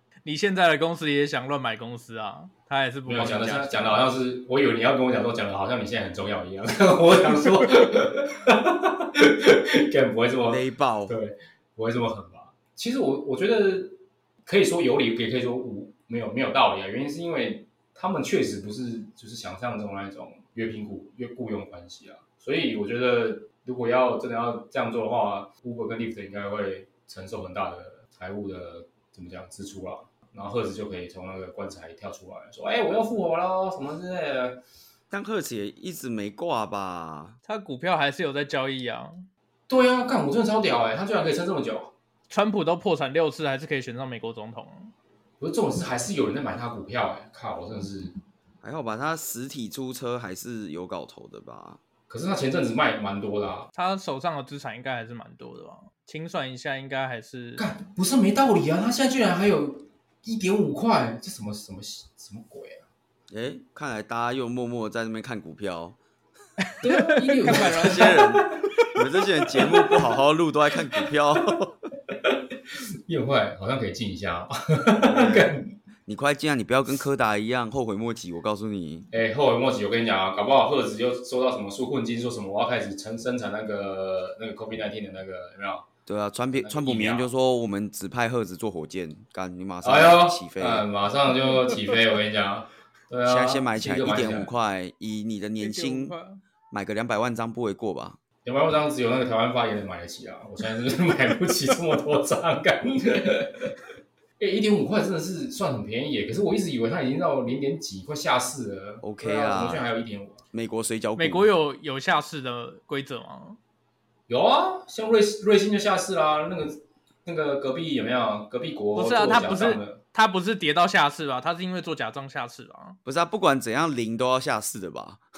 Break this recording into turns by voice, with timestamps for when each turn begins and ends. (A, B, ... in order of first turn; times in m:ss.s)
0:00.2-0:04.0 A
0:03.0-0:34.6 B
0:10.5-0:11.1 C
0:35.1-0:37.4 C
0:37.4-0:39.2 A
0:39.7-0:41.9 B
0:42.3-0:44.9 A
0:45.4-0:48.1 B
0:48.6-0:51.8 C
0:52.1-0:53.7 B
0:53.7-0:57.6 A
0:57.6-1:02.8 B
1:03.3-1:06.0 C
1:06.6-1:08.4 A
1:06.8-1:08.6 B
1:07.5-1:11.8 C
1:13.1-1:15.8 B
1:15.0-1:15.5 C
1:16.0-1:19.1 C
1:19.1-1:25.9 B
1:26.1-1:30.8 C
1:26.5-1:27.3 B
1:29.8-1:34.5 B
1:33.2-1:36.1 C
1:35.6-1:36.4 A
1:36.7-1:38.2 C
1:38.4-1:43.7 B
1:44.4-1:50.4 B
1:49.0-1:49.8 C
1:50.5-1:51.5 C
1:51.2-1:53.6 A
1:54.3-2:00.0 B
1:58.9-2:03.0 A
2:03.0-2:05.2 C